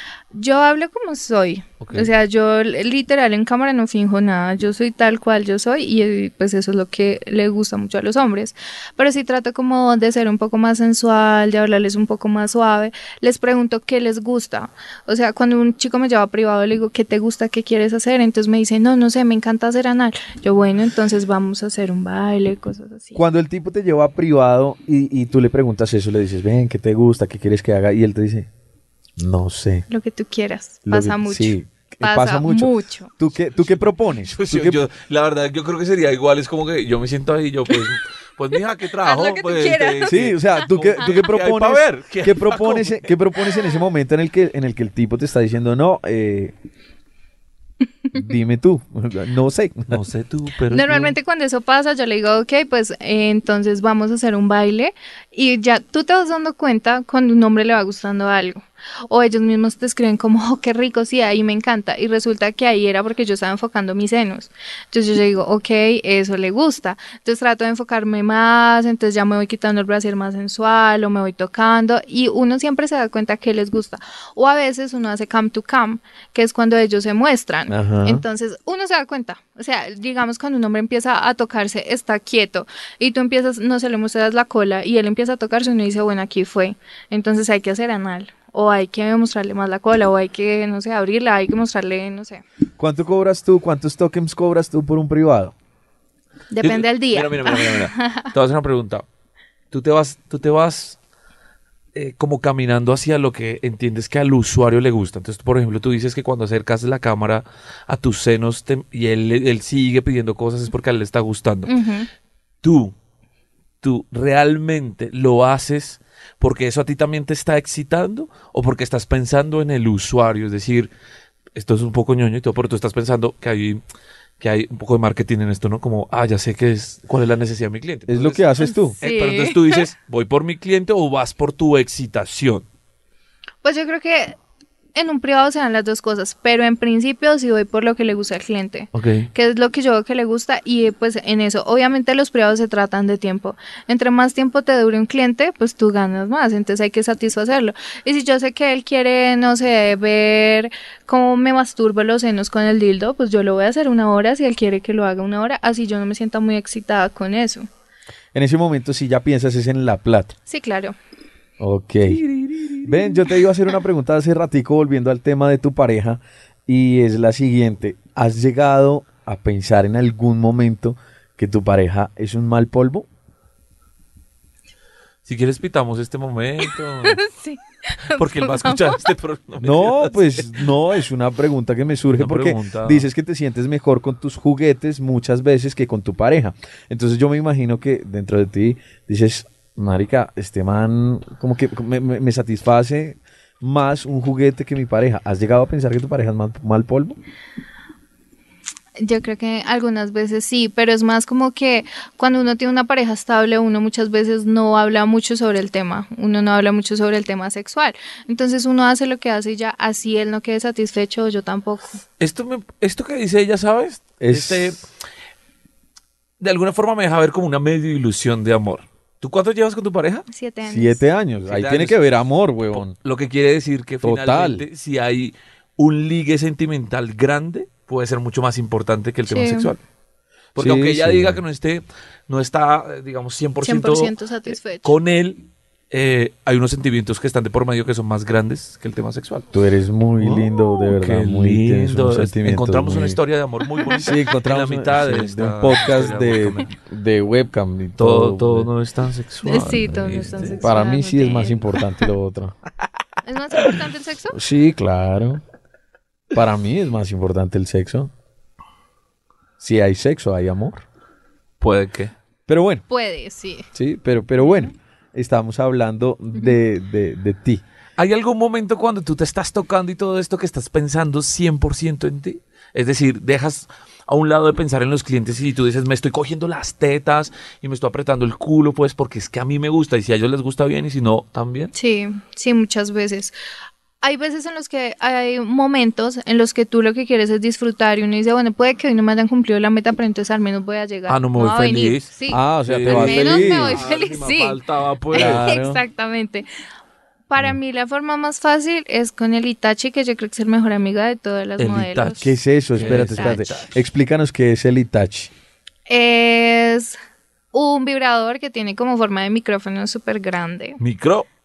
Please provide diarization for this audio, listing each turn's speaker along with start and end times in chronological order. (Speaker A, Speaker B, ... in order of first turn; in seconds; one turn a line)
Speaker A: 0.3-23.2
Speaker B: 1.8-2.1
Speaker C: 23.1-28.5
Speaker C: 29.2-29.9
Speaker A: 29.9-33.1
Speaker C: 30.9-34.8
Speaker B: 33.5-43.1
Speaker A: 39.0-40.2
Speaker C: 40.0-46.5
Speaker C: 48.1-50.0
Speaker B: 49.9-51.2
Speaker A: 50.7-92.4
Speaker C: 77.7-78.2
Speaker C: 92.8-95.5
Speaker A: 96.5-98.3
Speaker B: 96.6-99.1
Speaker B: 99.7-101.0
Speaker B: 102.0-111.7
Speaker A: 111.7-112.1
Speaker B: 112.6-112.9
Speaker B: 113.8-120.9
Speaker B: 121.5-123.8
Speaker B: 124.4-132.7
Speaker C: 128.1-129.0
Speaker A: 129.0-129.9
Speaker A: 133.6-134.4
Speaker A: 134.9-157.7
Speaker B: 138.9-139.3
Speaker C: 158.3-160.3
Speaker A: 160.5-160.9
Speaker C: 161.6-162.2
Speaker B: 162.1-163.2
Speaker C: 162.8-173.1
Speaker B: 175.3-177.2
Speaker A: 177.0-179.0
Speaker B: 178.1-180.5
Speaker C: 179.6-197.2
Speaker B: 182.1-183.1
Speaker A: 199.0-212.0
Speaker B: 212.2-214.8
Speaker C: 214.2-214.7
Speaker B: 216.4-220.3
Speaker A: 220.3-221.0
Speaker C: 220.7-222.9
Speaker B: 221.5-222.0
Speaker B: 222.7-229.8
Speaker C: 224.0-224.6
Speaker A: 229.3-229.7
Speaker B: 230.6-234.2
Speaker C: 230.6-231.4
Speaker A: 233.6-234.9
Speaker B: 234.8-239.5
Speaker C: 239.5-243.2
Speaker B: 240.2-246.7
Speaker C: 244.0-248.7
Speaker B: 248.0-250.6
Speaker A: 249.4-251.8
Speaker C: 250.4-252.6
Speaker A: 253.2-254.4
Speaker C: 254.3-255.4
Speaker C: 256.3-258.1
Speaker C: 259.6-260.8
Speaker B: 261.6-262.1
Speaker C: 262.5-262.8
Speaker A: 262.9-263.7
Speaker C: 263.7-267.6
Speaker A: 264.4-264.7
Speaker B: 268.0-281.7
Speaker A: 281.7-283.3
Speaker A: 284.0-294.6
Speaker B: 291.1-292.1
Speaker C: 292.3-293.9
Speaker B: 292.7-295.5
Speaker A: 295.1-296.5
Speaker C: 295.1-295.8
Speaker A: 297.3-303.5
Speaker B: 301.6-303.8
Speaker C: 302.2-305.3
Speaker A: 305.9-307.0
Speaker A: 307.5-310.8
Speaker B: 310.8-311.3